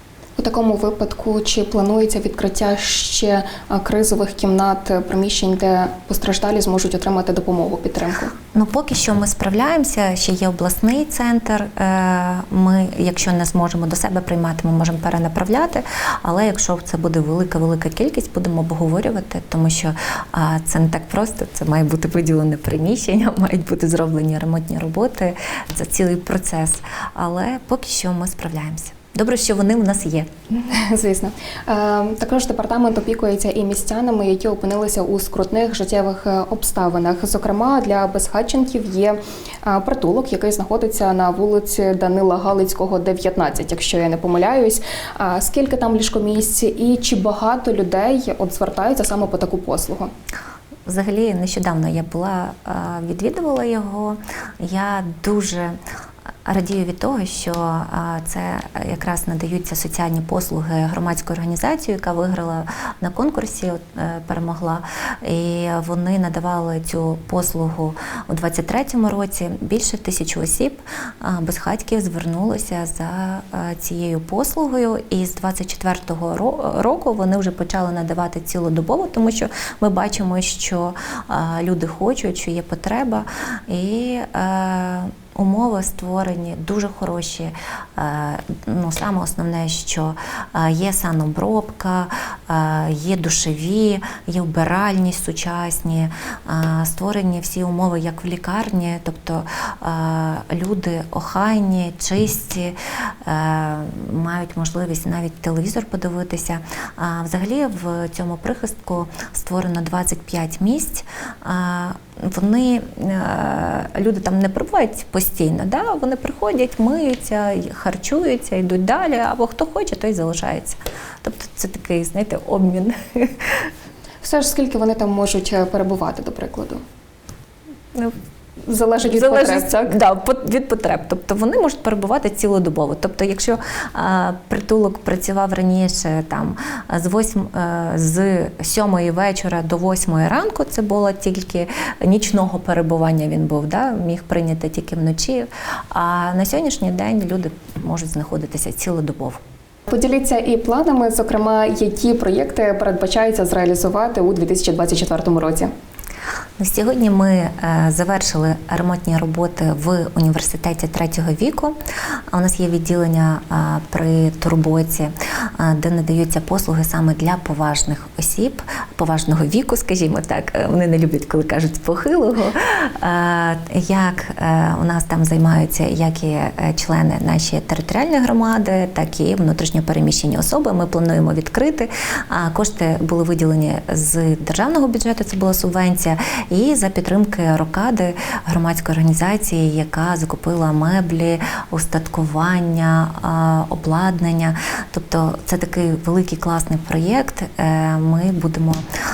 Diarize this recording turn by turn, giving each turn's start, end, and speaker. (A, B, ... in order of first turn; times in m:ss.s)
0:00.4-0:08.3 A
0:08.5-0:30.3 B
0:30.5-0:50.1 A
0:50.9-0:55.8 B
0:56.5-2:03.7 B
2:04.2-2:06.8 A
2:08.7-2:10.0 A
2:09.1-2:29.4 B
2:29.9-2:35.7 A
2:36.6-2:41.8 B
2:42.3-3:18.8 B